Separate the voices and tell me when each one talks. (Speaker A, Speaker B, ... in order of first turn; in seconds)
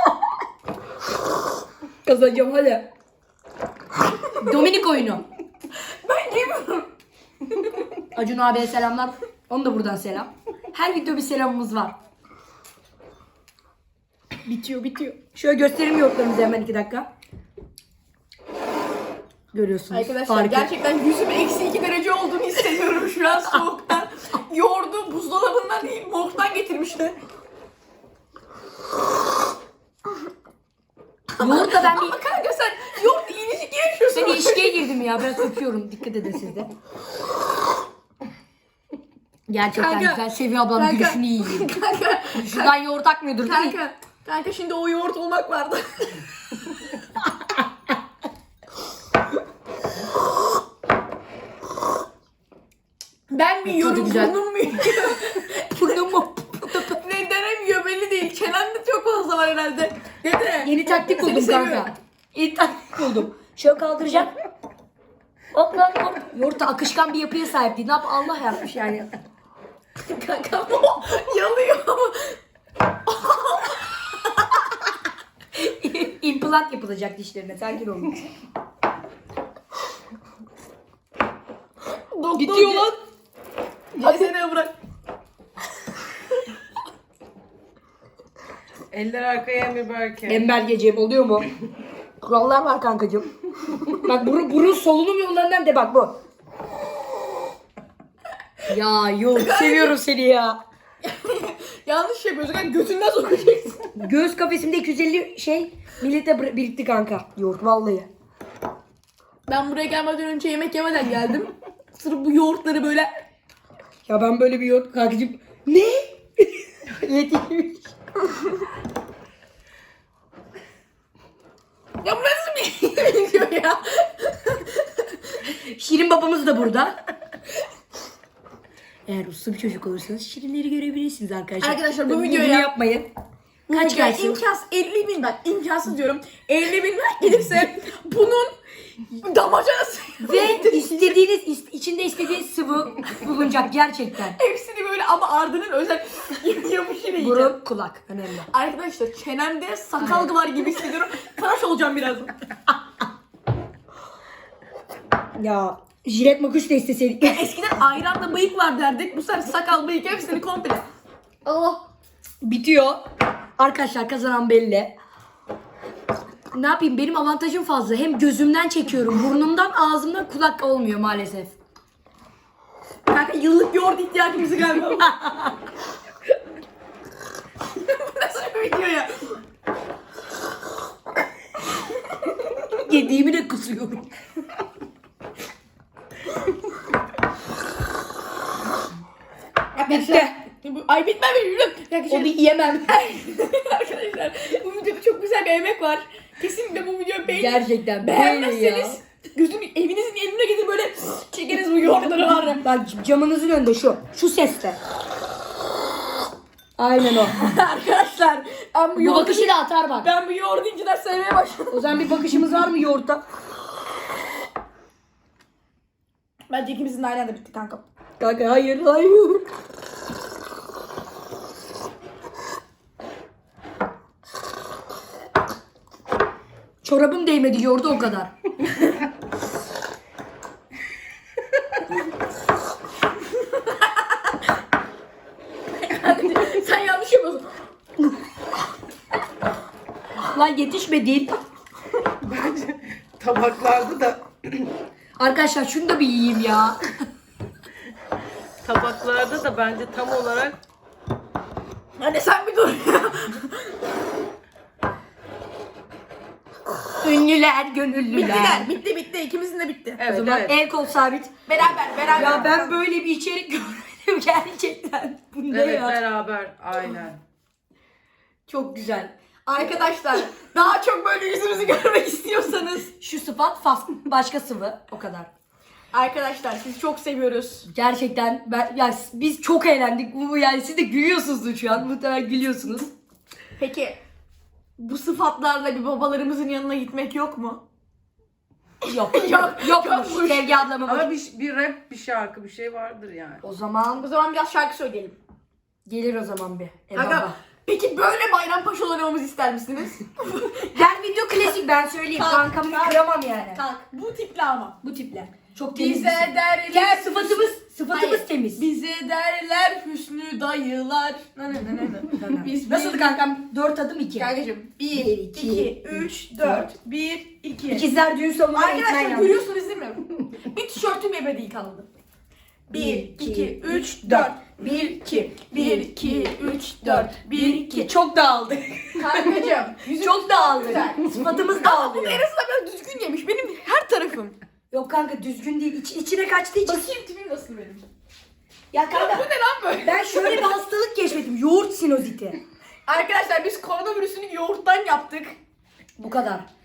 Speaker A: 2.0-2.9, 4.3-5.2, 8.1-11.9, 15.2-17.1, 19.5-20.7, 31.4-32.2, 34.1-36.7, 39.5-41.8, 42.3-43.8, 53.6-54.3, 55.5-57.0, 60.6-64.3, 65.5-69.1, 75.5-78.2, 82.3-82.9, 90.3-91.5, 92.2-96.2, 98.7-100.6, 104.0-108.1, 114.1-117.9, 125.5-127.0, 129.1-133.1, 133.7-134.4, 140.2-144.4, 147.2-148.5, 150.0-150.3, 155.3-157.4, 161.4-161.8, 162.4-163.0, 163.6-164.9, 166.5-171.6, 175.1-175.5, 182.8-184.1, 189.8-190.4, 192.1-193.0, 197.3-199.0, 202.6-204.8, 206.8-207.4, 209.0-210.1, 211.7-213.2, 218.2-219.4, 226.8-228.3, 240.2-241.3, 245.2-246.8, 257.0-258.7, 260.1-261.3, 262.1-266.0, 268.5-269.1, 273.0-275.3, 277.7-282.9, 288.9-291.1, 293.4-294.1, 295.9-297.3, 300.7-303.6, 304.8-308.7, 312.1-314.3, 314.9-316.7, 317.7-319.4, 322.7-332.2, 334.7-336.9, 338.7-339.3, 339.8-342.4, 346.0-346.5
Speaker B: 5.8-6.9, 14.4-15.2, 19.9-27.2, 31.4-35.6, 39.7-42.7, 43.4-46.7, 53.3-56.1, 56.7-61.9, 70.0-72.4, 73.0-74.6, 82.0-82.9, 84.0-84.7, 99.3-99.9, 101.0-103.9, 109.5-113.1, 122.0-125.4, 131.6-132.7, 133.7-138.6, 139.1-141.2, 144.3-147.5, 148.5-152.3, 157.2-160.8, 173.1-175.5, 177.7-179.4, 189.7-202.6, 207.3-212.3, 216.5-217.8, 233.5-234.3, 235.8-237.5, 252.0-253.7, 258.1-260.0, 261.5-262.8, 269.4-272.9, 275.9-277.7, 283.6-284.0, 284.8-287.6, 288.8-290.7, 294.0-295.1, 296.9-301.5, 302.1-304.8, 305.7-313.1, 314.1-317.9, 318.5-321.9, 322.7-327.9, 328.9-334.4, 336.6-337.8, 338.9-340.6, 342.9-345.4
Speaker C: 88.9-90.5, 242.2-244.7, 248.6-250.6, 260.0-260.5, 265.5-267.2, 290.8-293.4